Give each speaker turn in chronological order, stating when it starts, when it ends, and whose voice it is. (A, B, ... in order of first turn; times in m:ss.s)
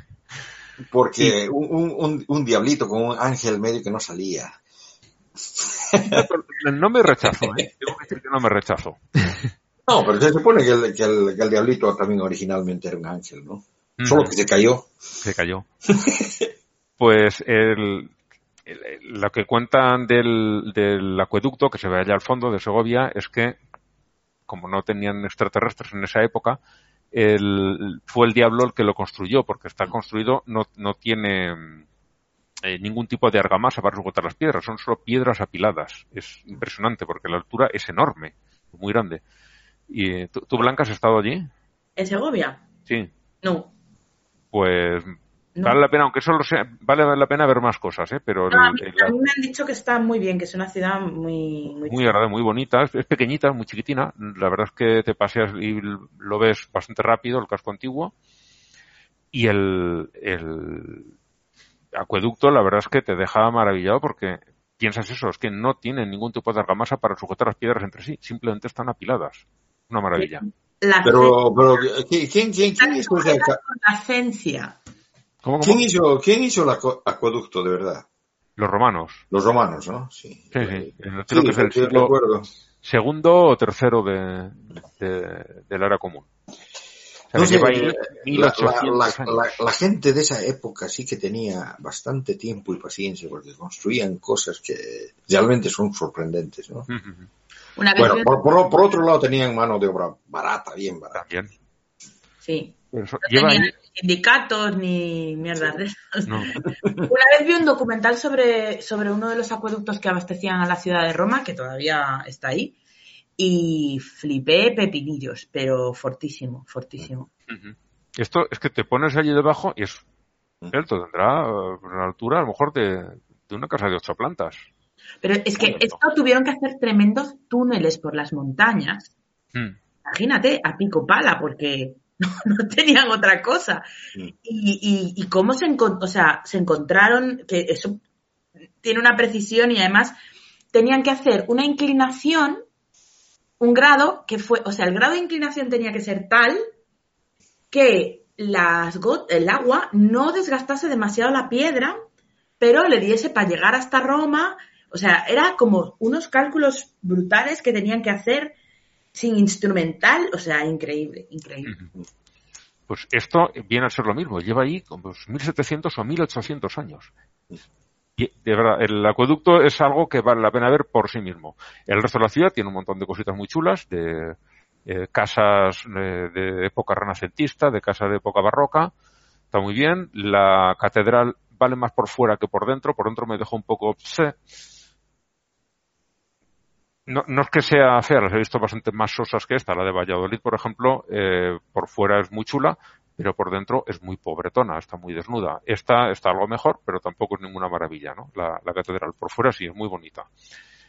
0:00.8-0:04.6 A
0:05.6-0:06.3 A
0:06.1-0:09.5 B
0:07.2-0:07.7 A
0:09.9-0:14.9 A
0:14.0-0:14.3 B
0:15.2-0:15.7 B
0:15.9-0:16.5 A
0:17.0-0:18.1 B
0:18.7-0:23.6 B
0:24.5-0:26.6 B
0:27.1-0:31.8 B
0:32.6-0:39.2 B
0:39.9-0:41.5 B
0:42.0-0:42.6 C
0:43.4-0:43.7 C
0:44.5-0:49.2 B
0:45.6-0:45.8 C
0:48.5-0:52.2 C
0:51.8-0:58.1 B
0:59.3-1:01.1 B
1:02.0-1:10.5 B
1:10.2-1:11.4 C
1:11.0-1:13.6 A
1:12.8-1:14.8 C
1:15.4-1:15.8 B
1:15.6-1:18.0 A
1:18.6-1:19.2 B
1:19.3-1:22.5 A
1:20.5-1:22.2 B
1:22.8-1:26.3 B
1:27.3-1:29.4 B
1:27.4-1:36.9 A
1:36.9-1:37.3 B
1:37.8-1:38.3 C
1:38.0-1:41.2 A
1:41.1-1:41.5 B
1:42.4-1:46.5 C
1:42.9-1:43.7 B
1:46.3-1:46.6 B
1:47.0-1:52.8 C
1:53.4-1:57.3 C
1:57.5-2:00.0 B
2:00.7-2:04.7 B
2:05.2-2:09.1 C
2:05.6-2:05.9 B
2:10.1-2:13.9 C
2:14.4-2:18.0 C
2:18.8-2:20.1 C
2:20.7-2:22.6 C
2:23.6-2:26.6 C
2:27.7-2:32.0 C
2:32.6-2:38.6 C
2:39.1-2:41.7 C
2:42.9-2:47.1 B
2:48.2-2:58.9 B
2:59.5-3:04.4 B
3:07.1-3:20.3 B